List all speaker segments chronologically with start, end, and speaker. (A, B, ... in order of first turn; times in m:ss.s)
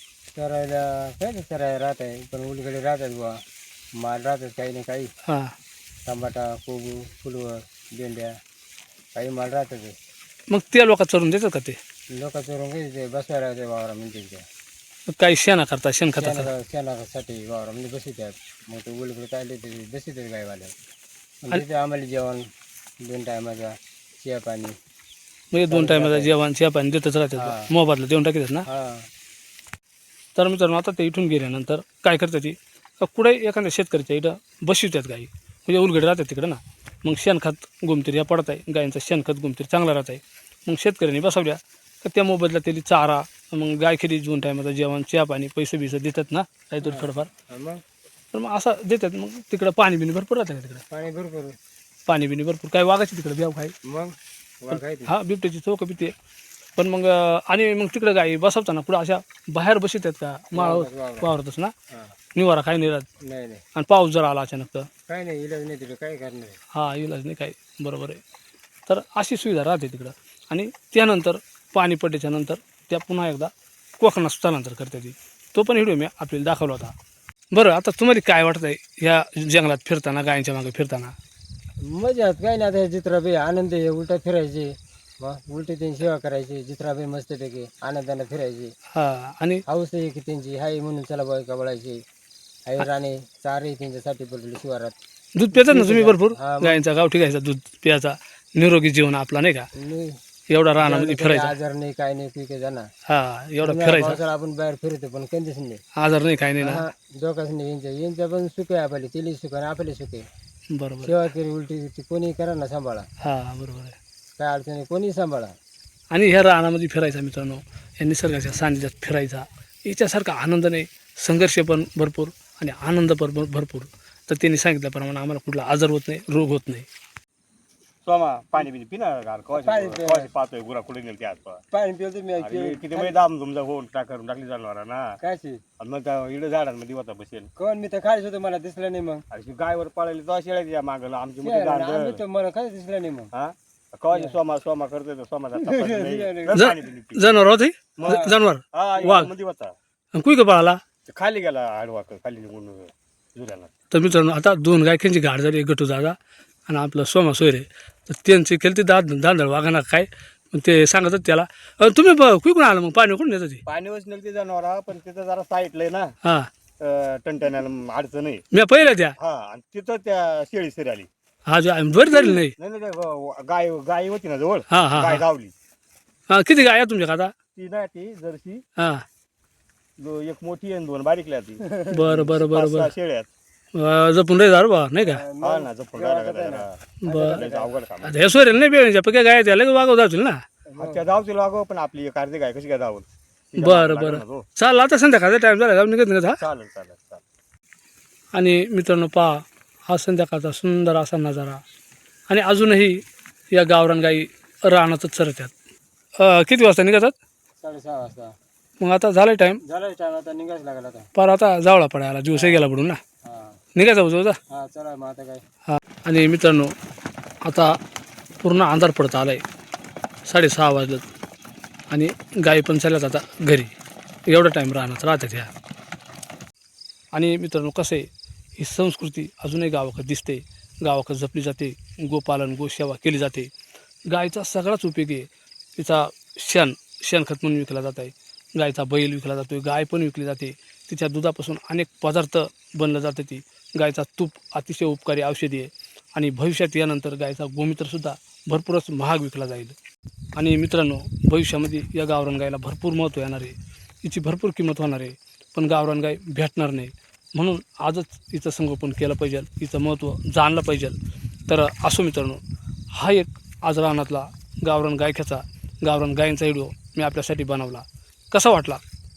0:00.4-0:03.4 A
0:04.0-0:05.1 A
0:05.3-0:05.5 B
0:06.1-0:08.3 A
0:09.2-0:09.9 A
0:10.5-0:11.8 B
0:12.2-0:14.4 A
0:15.1-0:16.5 B
0:16.1-0:20.7 A
0:21.4-0:22.4 A
0:23.0-0:24.8 A
0:25.5-0:28.6 B
0:25.7-0:26.4 A
0:27.4-0:27.7 A
0:28.7-0:29.1 A
0:30.4-0:47.3 B
0:46.8-0:47.8 A
0:48.3-0:50.8 B
0:50.9-0:51.6 A
0:52.1-0:53.7 B
0:53.8-0:55.1 A
0:54.7-0:56.1 B
0:56.8-1:01.7 B
1:00.5-1:01.3 A
1:02.4-1:03.1 B
1:03.2-1:03.6 A
1:03.8-1:04.9 B
1:05.1-1:06.6 A
1:06.8-1:08.2 B
1:08.9-1:16.9 B
1:17.5-1:21.2 B
1:21.9-1:28.7 A
1:29.0-1:29.6 B
1:29.7-1:32.0 A
1:32.7-1:35.0 A
1:35.4-1:39.7 B
1:35.5-1:36.8 A
1:39.8-1:40.2 A
1:40.5-1:41.5 B
1:40.8-1:42.9 A
1:43.1-1:44.2 B
1:43.6-1:45.8 A
1:46.0-1:46.8 B
1:46.6-1:50.2 A
1:50.7-1:51.2 B
1:51.0-1:53.1 A
1:53.2-1:54.0 B
1:54.4-1:55.5 A
1:56.1-2:06.9 B
2:08.0-2:11.6 C
2:09.6-2:10.3 A
2:11.7-2:13.1 A
2:12.4-2:15.0 C
2:15.2-2:15.6 A
2:15.8-2:17.5 C
2:17.6-2:19.2 A
2:19.3-2:22.2 C
2:21.4-2:23.3 A
2:23.4-2:27.2 C
2:24.1-2:24.4 A
2:25.6-2:26.6 A
2:26.5-2:29.3 B
2:28.0-2:29.7 C
2:28.0-2:28.3 A
2:30.1-2:30.8 B
2:31.1-2:33.7 C
2:33.9-2:36.2 B
2:36.7-2:43.6 B
2:43.7-2:46.1 C
2:46.2-2:46.5 B
2:46.8-2:48.4 C
2:48.5-2:49.2 B
2:49.2-2:51.1 C
2:51.5-2:52.6 B
2:52.6-2:55.5 C
2:54.7-2:55.2 B
2:56.3-2:57.3 B
2:57.6-2:58.6 C
2:58.8-2:59.0 B
3:00.0-3:03.3 C
3:01.9-3:02.9 B
3:03.8-3:05.2 B
3:05.0-3:07.7 A
3:05.4-3:06.7 C
3:07.1-3:07.4 B
3:07.4-3:08.2 C
3:08.0-3:10.4 B
3:10.8-3:14.4 C
3:10.8-3:11.0 A
3:13.6-3:16.4 B
3:16.4-3:17.2 C
3:18.3-3:21.6 B
3:22.3-3:23.0 B
3:23.5-3:25.5 B
3:26.2-3:27.1 B
3:27.6-3:28.3 A
3:28.8-3:29.6 B
3:29.7-3:31.1 A
3:31.2-3:33.0 B
3:32.3-3:32.6 A
3:33.2-3:33.6 A
3:33.8-3:34.4 B
3:34.5-3:35.4 A
3:35.7-3:36.7 B
3:37.4-3:37.8 B
3:38.4-3:39.4 B
3:40.3-3:41.0 B
3:41.9-3:43.7 B
3:44.3-3:45.5 B
3:47.1-3:53.5 B
3:54.1-4:09.8 B
4:10.4-4:21.0 B
4:21.5-4:22.4 B
4:22.9-4:28.8 B